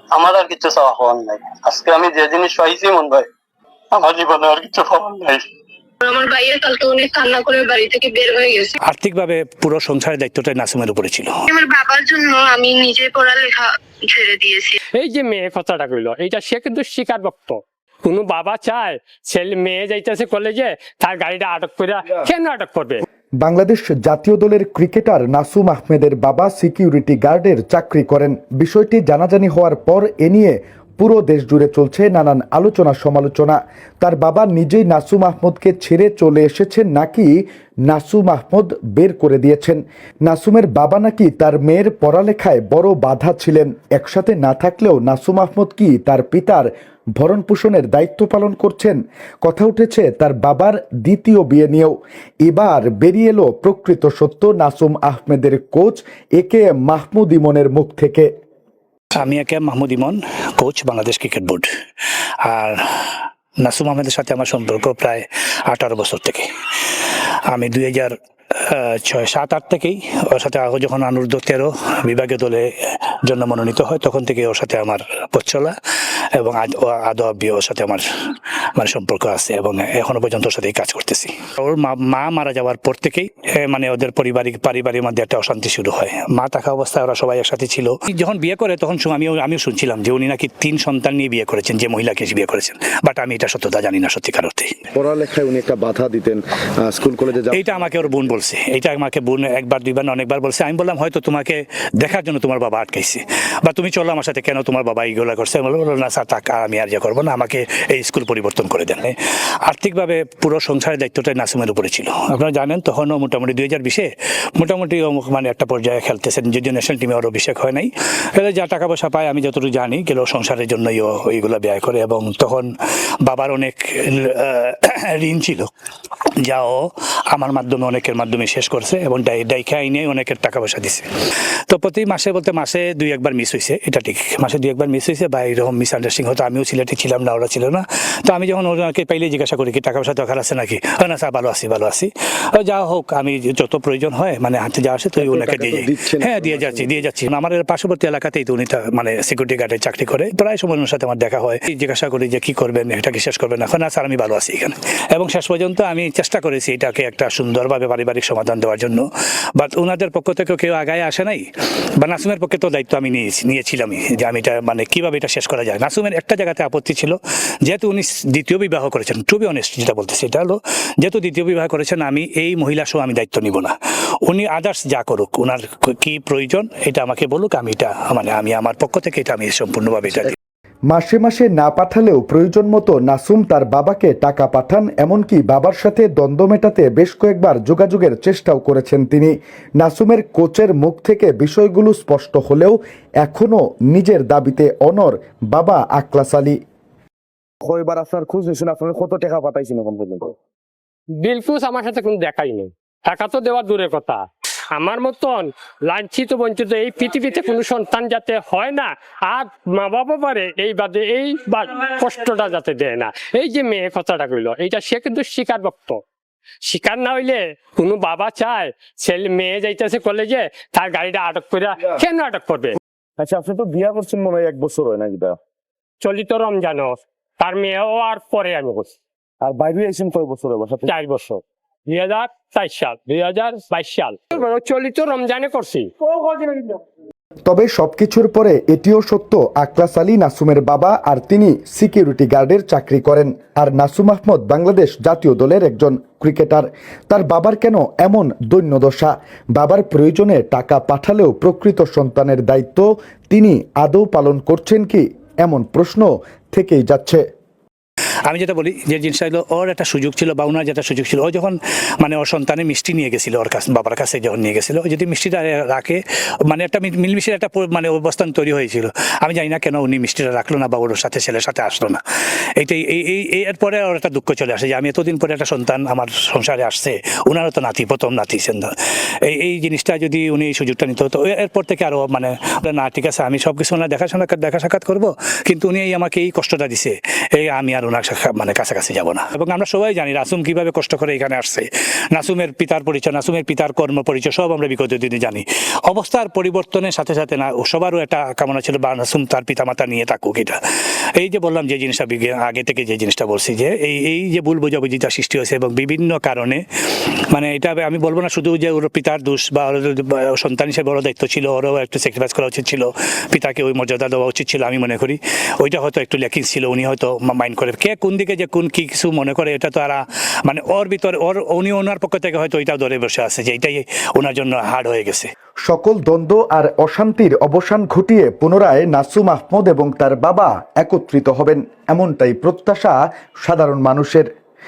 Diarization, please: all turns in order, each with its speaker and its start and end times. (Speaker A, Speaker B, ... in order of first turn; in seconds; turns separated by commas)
Speaker A: 0.1-3.2, Speaker A: 3.9-5.4, Speaker B: 6.0-8.7, Speaker C: 8.9-11.3, Speaker B: 11.5-14.8, Speaker D: 15.0-23.0, Speaker E: 23.4-37.3, Speaker E: 37.9-46.7, Speaker E: 47.2-58.3, Speaker C: 59.2-61.7, Speaker C: 62.4-68.1, Speaker C: 68.7-72.7, Speaker C: 73.3-75.7, Speaker C: 76.3-78.0, Speaker C: 78.8-94.7, Speaker F: 95.0-98.0, Speaker C: 97.5-109.1, Speaker C: 109.7-114.1, Speaker C: 114.6-122.7, Speaker C: 123.2-125.7, Speaker C: 126.4-131.0, Speaker C: 131.7-159.0, Speaker F: 145.2-147.0, Speaker C: 159.6-161.4, Speaker C: 162.0-173.7, Speaker C: 174.3-180.3, Speaker E: 180.9-196.6, Speaker F: 197.6-200.3, Speaker D: 201.2-204.2, Speaker D: 204.8-216.0, Speaker D: 216.7-222.8, Speaker F: 223.2-225.4, Speaker D: 226.0-228.9, Speaker F: 229.4-230.9, Speaker D: 230.8-236.8, Speaker E: 237.4-257.2, Speaker C: 258.3-266.0, Speaker C: 266.5-272.0, Speaker C: 272.6-278.7, Speaker C: 279.2-300.6, Speaker C: 301.2-306.6, Speaker C: 307.3-325.3, Speaker E: 325.6-334.3